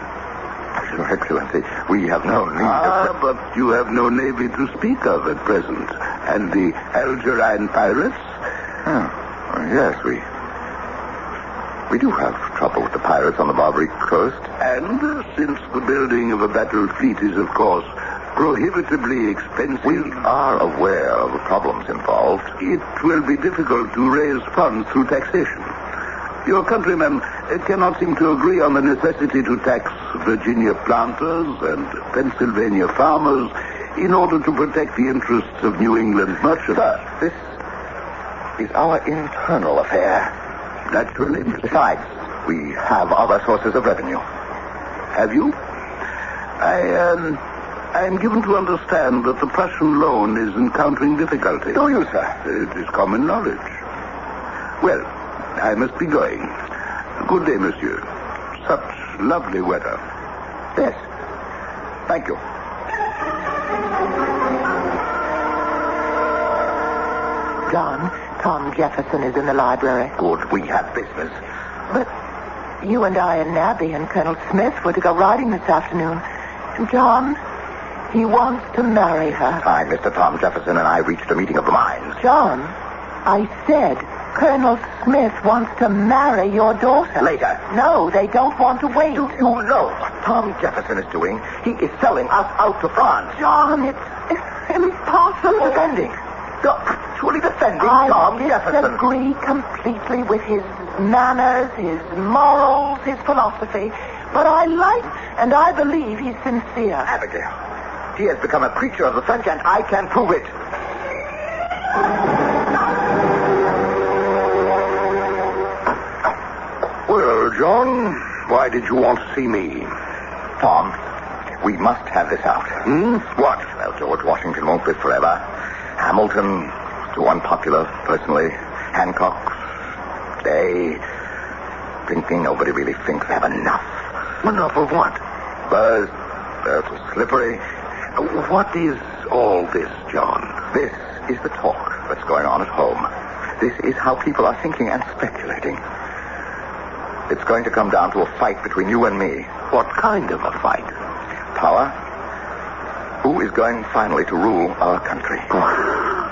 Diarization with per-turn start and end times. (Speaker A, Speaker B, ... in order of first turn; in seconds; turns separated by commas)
Speaker A: 0.8-3.1, Speaker B: 2.7-8.2, Speaker A: 8.8-10.2, Speaker A: 11.9-14.5, Speaker B: 14.6-20.1, Speaker A: 19.9-22.5, Speaker B: 22.6-25.7, Speaker B: 26.4-36.8, Speaker A: 36.8-37.4, Speaker A: 38.6-40.3, Speaker B: 40.9-41.7, Speaker A: 41.6-44.2, Speaker B: 45.1-45.5, Speaker B: 46.6-47.4, Speaker B: 47.9-51.8, Speaker A: 51.8-52.3, Speaker B: 52.5-53.6, Speaker B: 55.6-56.5, Speaker B: 57.2-58.0, Speaker B: 58.6-60.0, Speaker A: 60.8-61.0, Speaker A: 62.1-62.4, Speaker C: 67.7-70.2, Speaker A: 70.2-71.4, Speaker C: 72.8-76.2, Speaker C: 76.8-77.4, Speaker C: 78.1-79.6, Speaker A: 79.6-82.2, Speaker C: 82.2-82.7, Speaker C: 83.2-89.3, Speaker A: 87.2-87.6, Speaker A: 89.1-93.4, Speaker C: 93.3-95.9, Speaker A: 95.5-99.0, Speaker C: 97.8-107.1, Speaker A: 107.1-107.5, Speaker A: 108.2-110.5, Speaker B: 117.1-119.9, Speaker A: 120.6-121.0, Speaker A: 121.6-125.4, Speaker B: 122.9-123.2, Speaker A: 126.0-129.6, Speaker A: 130.4-131.0, Speaker A: 132.1-133.9, Speaker B: 134.4-135.2, Speaker A: 135.7-136.1, Speaker A: 136.6-137.6, Speaker B: 138.2-140.6, Speaker A: 140.7-143.1, Speaker A: 143.6-145.8, Speaker A: 147.3-149.5, Speaker B: 149.7-150.9, Speaker A: 151.6-151.9, Speaker A: 153.2-155.6, Speaker B: 155.7-156.1